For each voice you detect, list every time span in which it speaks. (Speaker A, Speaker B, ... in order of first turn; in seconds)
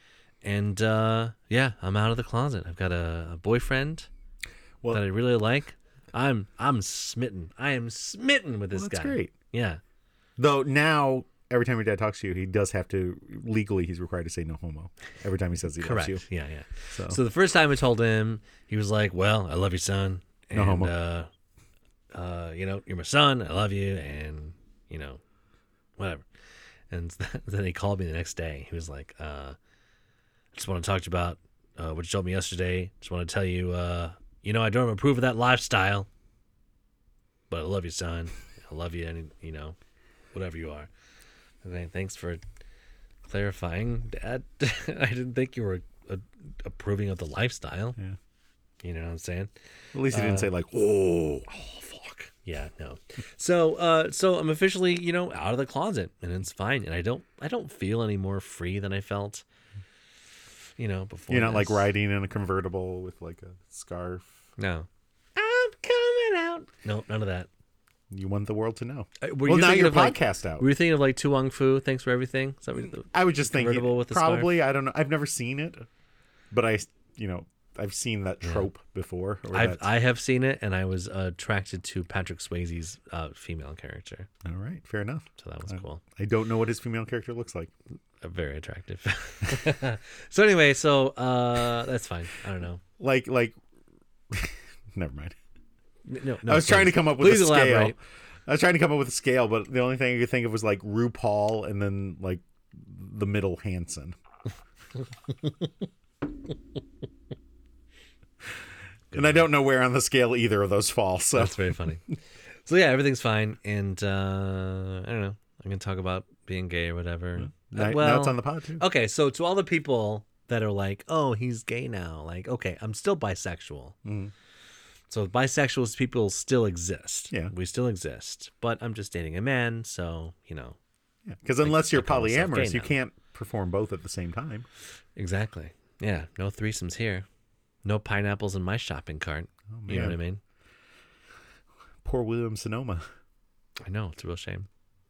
Speaker A: 0.4-4.1, 4.9-9.8, 15.8-21.3, 22.1-25.2, 26.0-26.3, 26.9-29.6, 30.5-36.1, 37.5-39.8, 40.3-40.9, 41.6-42.4, 43.3-48.0, 48.8-49.5, 50.1-50.5, 52.4-59.4, 60.8-61.9, 64.6-67.5, 69.2-74.6, 79.5-84.3, 85.4-86.0, 88.2-92.8, 96.1-98.0, 109.1-109.5, 111.4-112.0, 112.7-124.0, 125.1-130.8, 131.6-132.9, 135.2-137.3, 137.8-140.4, 143.8-144.7
Speaker B: 8.7-9.3, 10.4-16.2, 16.9-17.2, 20.5-20.9, 49.9-52.3, 61.3-64.3, 68.1-70.7, 72.8-75.9, 76.5-79.9, 84.4-87.7, 93.0-93.6, 94.3-95.3, 96.5-104.2, 109.1-111.9, 117.4-118.8, 124.0-124.3, 131.3-134.7, 139.7-140.2, 142.0-143.0